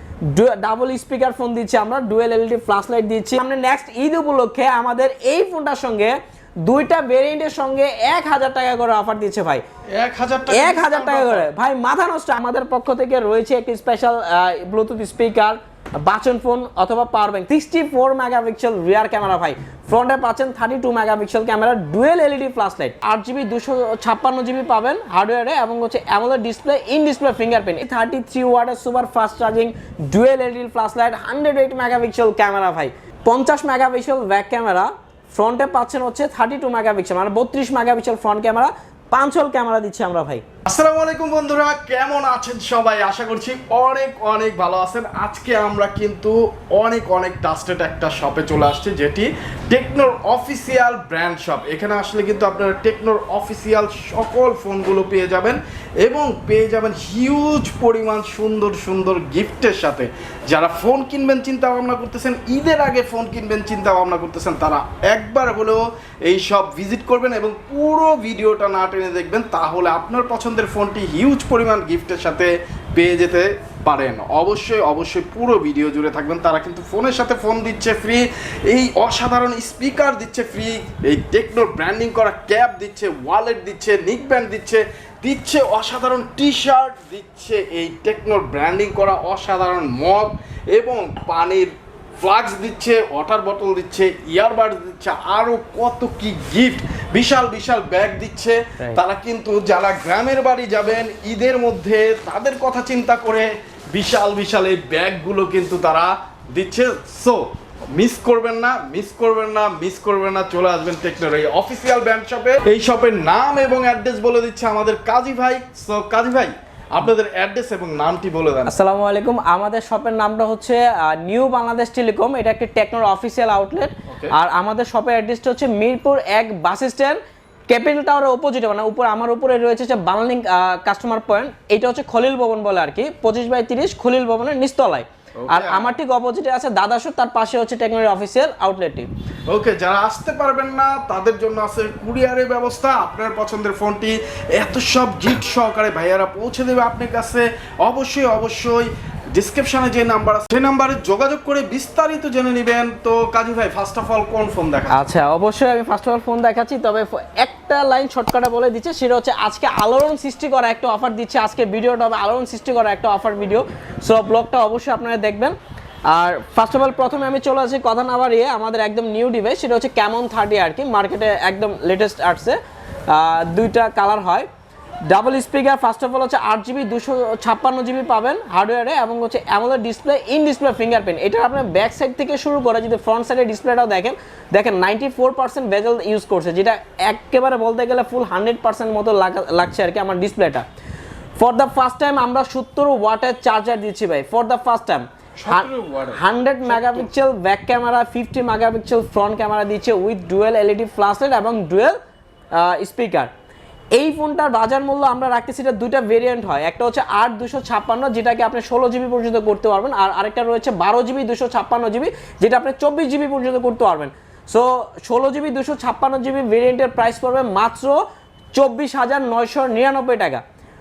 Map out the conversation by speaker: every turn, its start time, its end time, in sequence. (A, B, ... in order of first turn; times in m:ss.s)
0:00.3-0:09.6 A
0:10.0-0:11.5 B
0:10.5-0:40.4 A
0:40.6-1:58.7 B
1:58.7-2:07.2 A
2:04.1-2:04.3 B
2:07.7-2:19.1 A
2:15.4-2:15.9 B
2:19.5-2:35.1 B
2:34.9-2:45.6 A
2:46.1-2:54.5 A
2:55.1-3:10.6 A
3:11.4-3:22.0 A
3:15.4-3:17.1 B
3:22.6-3:23.3 A
3:23.9-3:40.4 A